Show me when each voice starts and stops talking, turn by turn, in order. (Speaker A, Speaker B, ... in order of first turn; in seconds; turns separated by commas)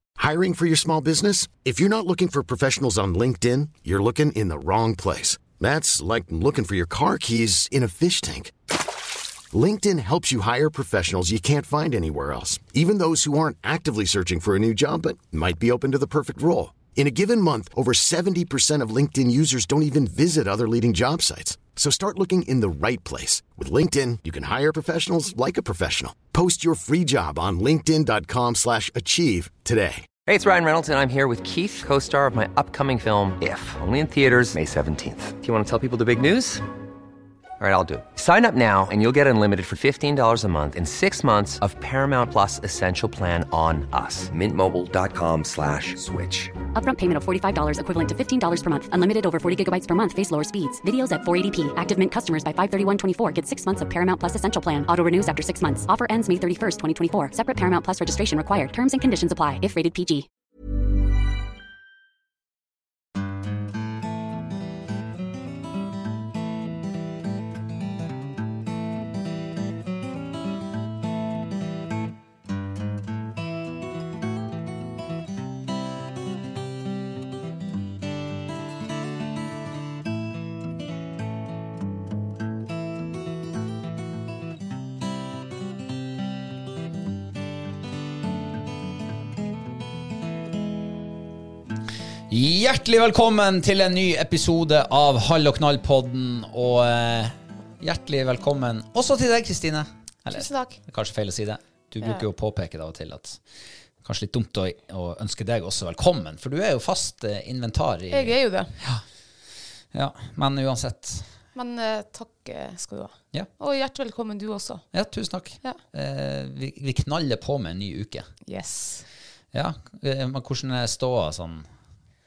Speaker A: 0.2-8.6, Speaker A: 9.5-30.1, Speaker B: 30.3-36.6, Speaker B: 37.6-46.6, Speaker C: 46.7-60.3, Speaker D: 92.3-103.4, Speaker E: 100.3-100.8, Speaker D: 104.0-109.0, Speaker E: 108.1-108.7, Speaker D: 109.9-111.3, Speaker E: 111.5-114.8, Speaker D: 114.9-118.3, Speaker E: 118.5-119.1, Speaker D: 119.5-121.7